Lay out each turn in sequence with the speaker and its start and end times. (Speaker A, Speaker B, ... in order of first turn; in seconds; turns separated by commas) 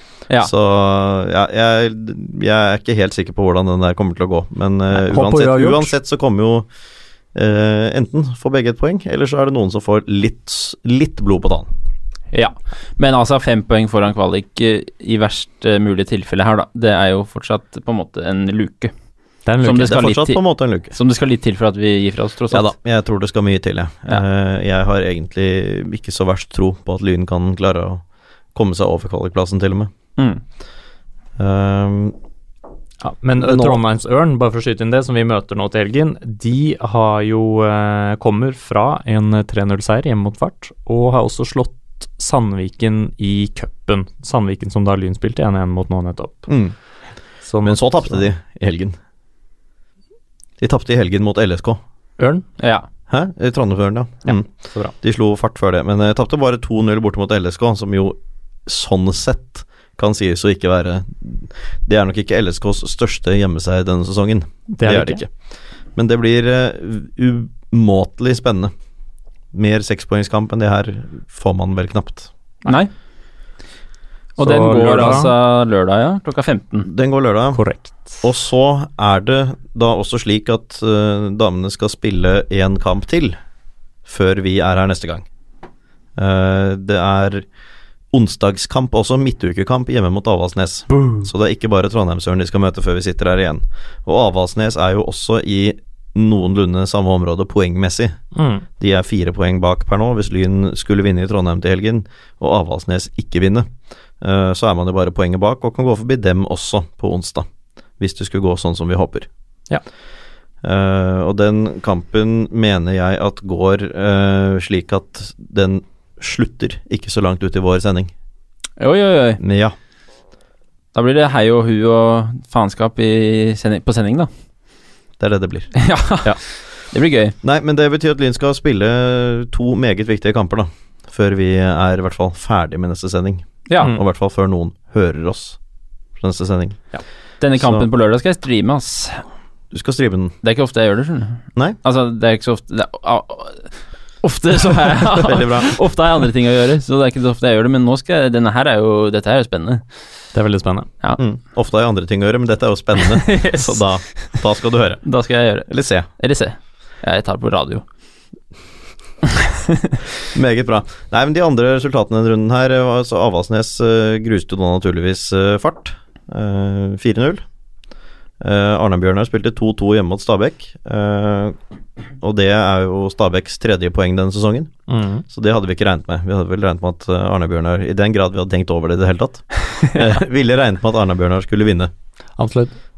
Speaker A: 0.4-6.7, Speaker B: 4.9-5.9, Speaker A: 7.3-11.7, Speaker C: 12.3-18.9, Speaker B: 19.4-20.1, Speaker C: 19.6-22.7, Speaker A: 19.8-20.9, Speaker A: 22.5-28.0, Speaker A: 28.5-29.9, Speaker A: 31.4-32.1, Speaker B: 33.0-46.5, Speaker A: 33.4-33.8, Speaker A: 46.5-46.7, Speaker B: 47.4-48.3, Speaker A: 47.6-49.0, Speaker A: 50.6-51.8, Speaker B: 52.2-52.5, Speaker C: 52.6-52.9, Speaker A: 53.1-54.5, Speaker A: 55.0-65.3, Speaker B: 64.7-65.2, Speaker A: 65.9-68.7, Speaker A: 69.5-72.3, Speaker B: 74.4-75.3, Speaker C: 74.4-76.9, Speaker A: 76.8-77.6, Speaker B: 77.5-78.2, Speaker A: 78.2-83.4, Speaker A: 84.0-85.2, Speaker A: 86.2-87.5, Speaker A: 88.1-98.2, Speaker B: 90.9-91.2, Speaker B: 98.3-98.6, Speaker A: 98.8-103.7, Speaker A: 104.2-107.5, Speaker A: 108.0-109.3, Speaker A: 110.6-118.1, Speaker C: 118.8-119.4, Speaker A: 119.4-119.7, Speaker C: 120.9-124.3, Speaker A: 125.2-126.4, Speaker C: 125.8-126.4, Speaker C: 126.9-127.3, Speaker A: 127.4-135.6, Speaker C: 133.7-133.9, Speaker A: 136.2-136.8, Speaker C: 137.4-139.2, Speaker A: 137.6-137.9, Speaker A: 139.7-140.3, Speaker C: 140.4-143.7, Speaker C: 144.2-149.8, Speaker A: 145.1-145.8, Speaker B: 150.3-150.9, Speaker A: 151.2-155.0, Speaker C: 153.2-153.8, Speaker C: 155.0-157.8, Speaker A: 155.7-156.1, Speaker C: 159.4-160.0, Speaker A: 160.3-167.4, Speaker A: 168.4-171.6, Speaker A: 172.2-174.7, Speaker B: 174.9-175.2, Speaker A: 175.3-181.9, Speaker B: 182.4-182.7